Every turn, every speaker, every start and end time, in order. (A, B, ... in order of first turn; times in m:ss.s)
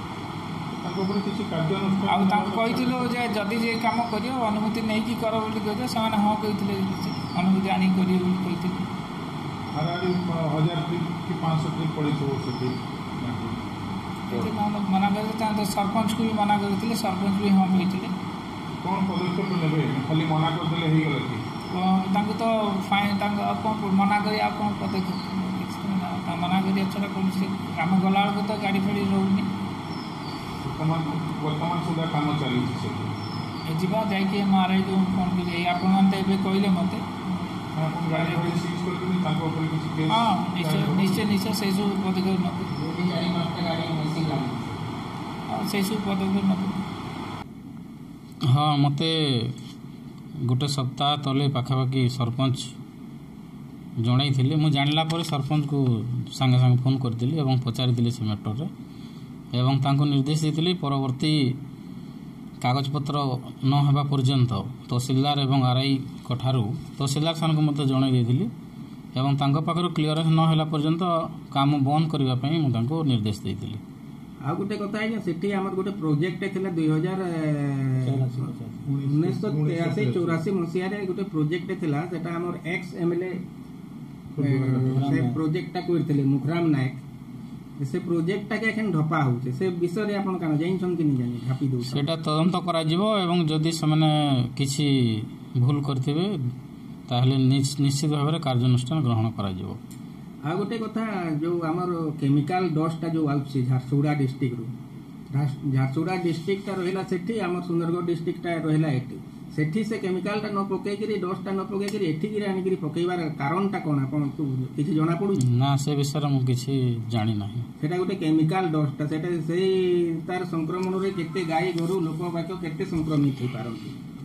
0:00.7-0:03.1 A
0:02.1-0:08.8 B
0:09.7-0:13.6 A
0:14.3-0:18.1 B
0:18.8-0:21.4 A
0:21.7-0:29.5 B
0:30.6-0:33.4 A
0:33.7-0:38.6 B
0:37.7-0:41.2 A
0:40.1-0:42.7 B
0:42.7-0:44.9 C
0:45.5-0:46.8 B
0:48.5-0:49.6 D
0:50.5-0:52.7 D
0:54.0-0:58.7 D
0:59.5-1:01.6 D
1:02.6-1:08.5 D
1:09.2-1:13.8 D
1:14.4-1:18.2 C
1:18.1-1:18.8 D
1:18.3-1:20.4 A
1:19.0-1:23.4 C
1:24.4-1:25.2 A
1:24.4-1:27.0 C
1:24.9-1:25.4 D
1:27.8-1:32.0 C
1:31.9-1:36.3 D
1:37.1-1:39.8 D
1:40.5-1:44.7 C
1:45.3-1:55.4 C
1:55.4-1:57.7 D
1:57.8-2:04.0 C